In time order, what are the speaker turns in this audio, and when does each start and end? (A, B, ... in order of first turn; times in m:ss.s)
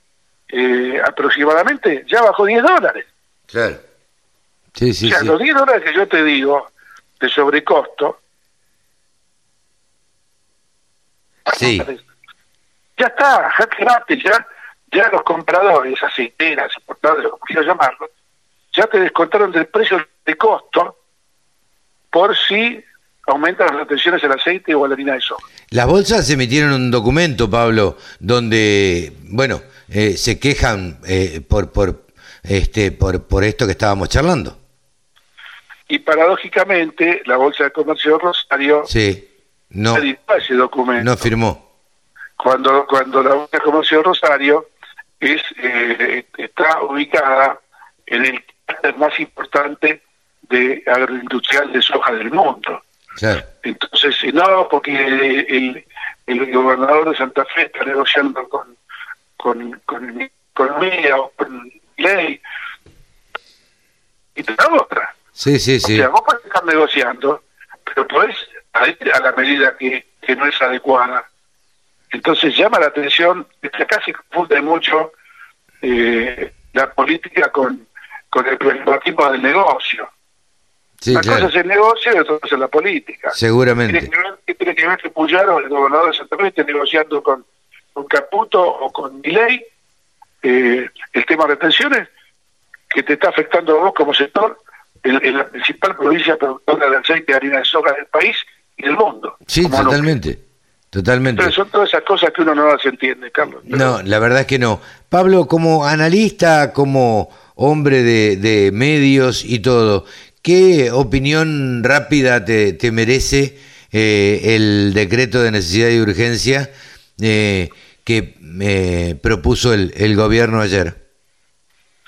0:00.5-0:03.1 A
0:03.5-0:03.8 B
0:04.8-0:05.4 B
0:05.0-0:06.7 A
0:07.2-0:08.2 A
0:11.5-0:12.0 A
0:11.5-0:11.9 B
0:13.0-0:18.1 A
0:18.7-0:21.0 A
0:22.1-0:25.4 A
0:25.7-0:34.6 B
0:35.9-0:38.9 A
0:38.9-0:40.1 B
0:39.9-0:41.3 A
0:41.0-0:41.6 B
0:42.4-0:44.7 A
0:45.2-0:52.8 A
0:53.2-0:53.4 B
0:53.6-0:58.7 A
0:59.4-1:02.4 A
1:04.4-1:05.1 A
1:05.4-1:06.1 B
1:05.8-1:11.2 A
1:12.1-1:15.1 A
1:15.8-1:20.1 A
1:21.0-1:21.5 B
1:21.1-1:29.7 A
1:23.4-1:24.1 B
1:30.4-1:32.1 A
1:32.9-1:40.1 A
1:39.5-1:40.4 B
1:40.9-1:41.5 B
1:41.2-1:44.0 A
1:43.7-2:01.0 B